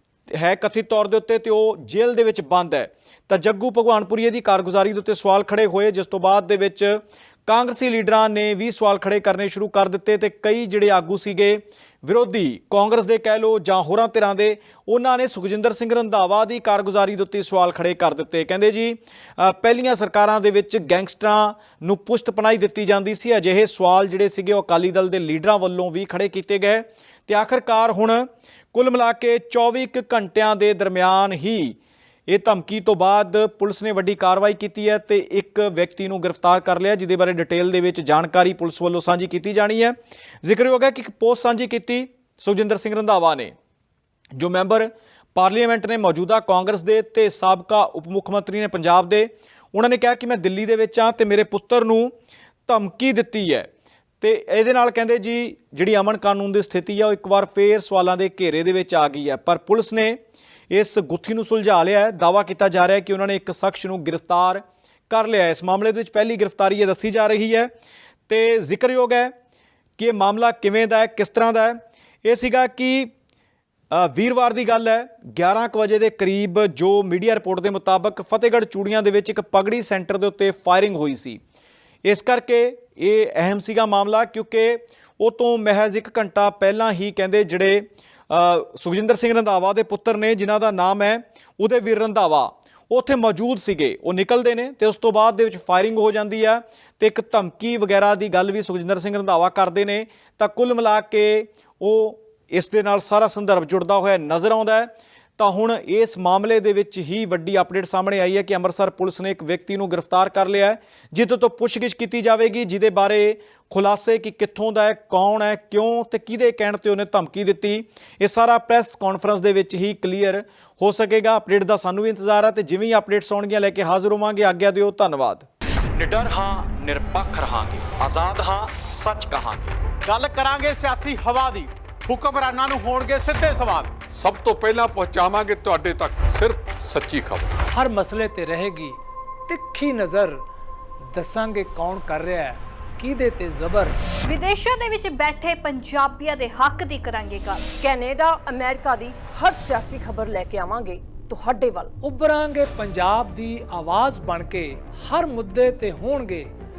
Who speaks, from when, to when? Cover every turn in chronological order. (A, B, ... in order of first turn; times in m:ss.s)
0:00.3-0:43.5 A
0:44.4-0:52.1 A
0:52.7-0:53.7 A
0:54.2-1:00.2 A
1:00.7-1:07.7 A
1:08.3-1:09.3 A
1:10.0-1:13.1 A
1:13.9-1:21.4 A
1:22.0-2:09.8 A
2:10.1-2:13.9 B
2:14.1-2:17.6 C
2:17.7-2:20.4 D
2:21.1-2:24.0 D
2:24.3-2:27.8 E
2:27.8-2:31.9 F
2:32.0-2:36.5 D